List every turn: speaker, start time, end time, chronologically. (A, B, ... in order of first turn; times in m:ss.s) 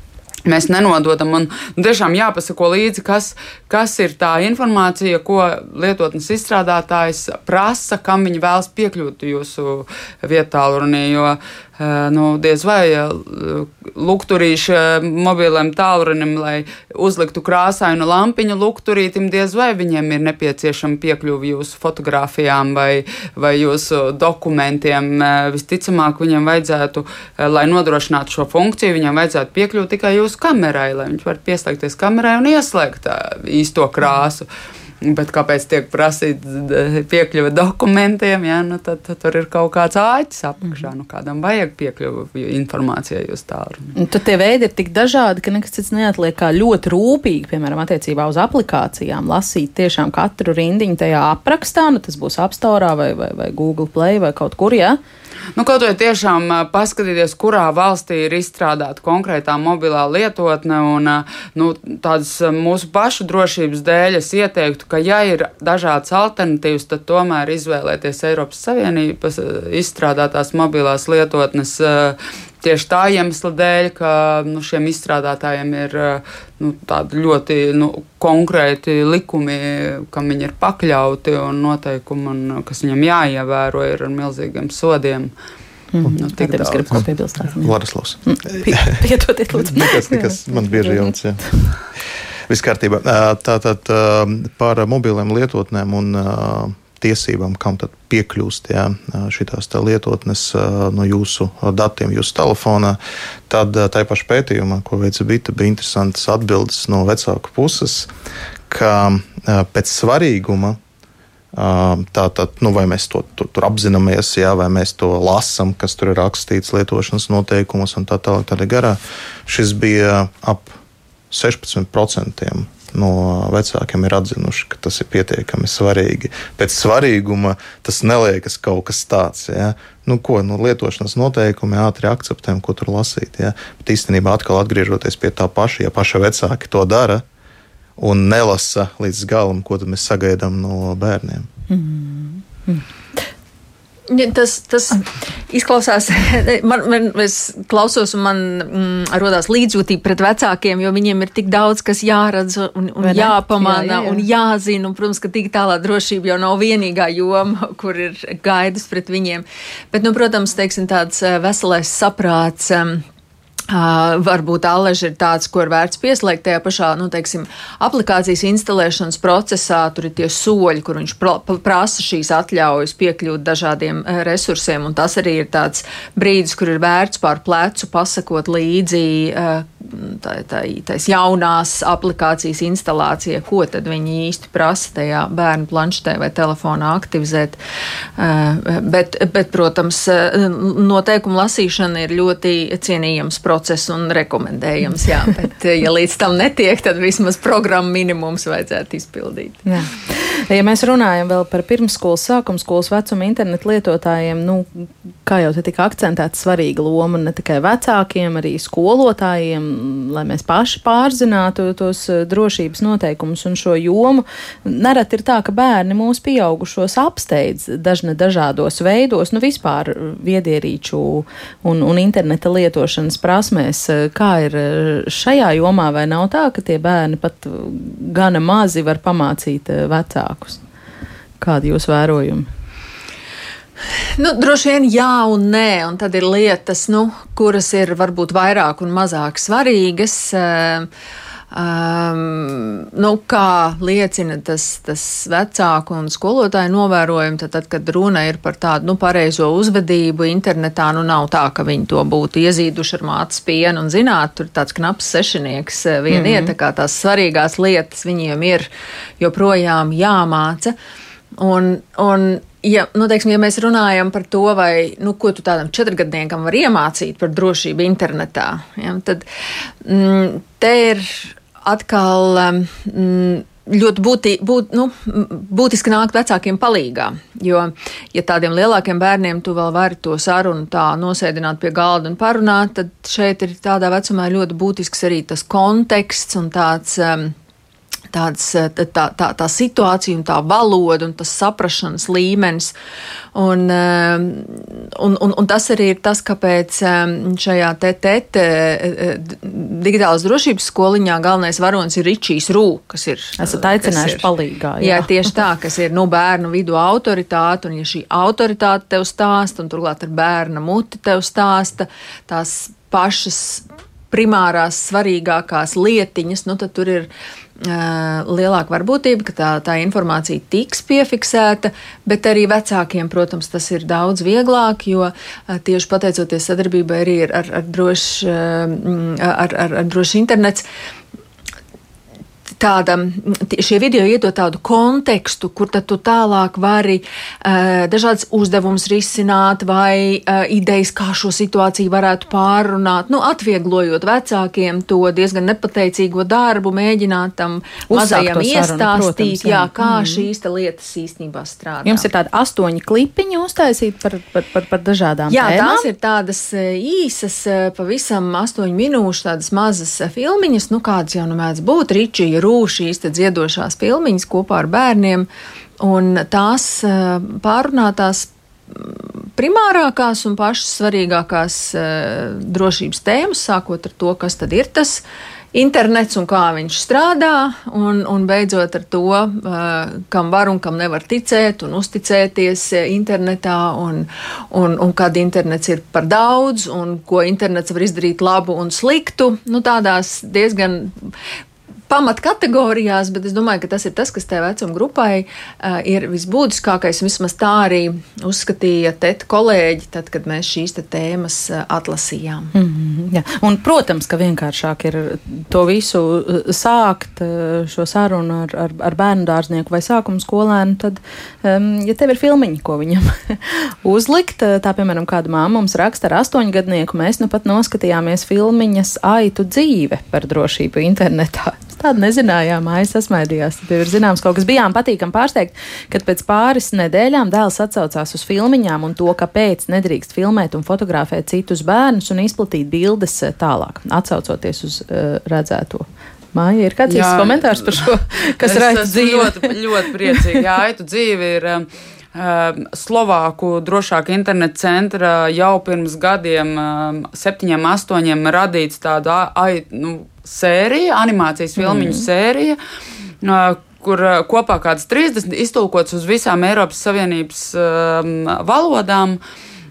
0:00.4-0:34.5 A
0:35.0-0:43.9 A
0:44.0-0:55.0 B
0:55.6-1:25.3 A
1:25.9-1:31.1 B
1:26.2-1:27.0 A
1:27.6-1:29.0 C
1:29.5-1:31.5 C
1:32.5-1:43.0 C
1:43.5-1:48.1 C
1:48.7-1:50.8 C
1:51.5-2:00.8 C
2:01.3-2:17.2 C
2:18.0-2:21.5 C
2:21.7-2:22.8 B
2:24.1-2:43.0 D
2:33.0-2:34.2 B
2:43.7-3:07.6 D
3:08.2-3:19.6 D
3:19.6-3:50.6 B
3:51.4-3:52.5 B
3:54.2-4:00.9 D
4:01.5-4:20.7 D
4:16.1-4:16.5 B
4:21.4-4:29.2 D
4:29.8-4:47.3 D
4:48.1-4:52.7 D
4:53.3-5:04.3 D
5:03.4-5:05.2 B
5:04.8-5:17.1 D
5:17.6-5:30.6 D
5:32.6-5:52.1 D
5:47.9-5:50.3 B
5:51.8-5:55.9 B
5:55.3-6:05.3 D
6:05.8-6:31.1 D
6:31.9-6:42.5 D
6:42.5-7:20.4 B
7:16.9-7:32.6 A
7:31.6-7:32.1 B
7:33.2-7:39.2 A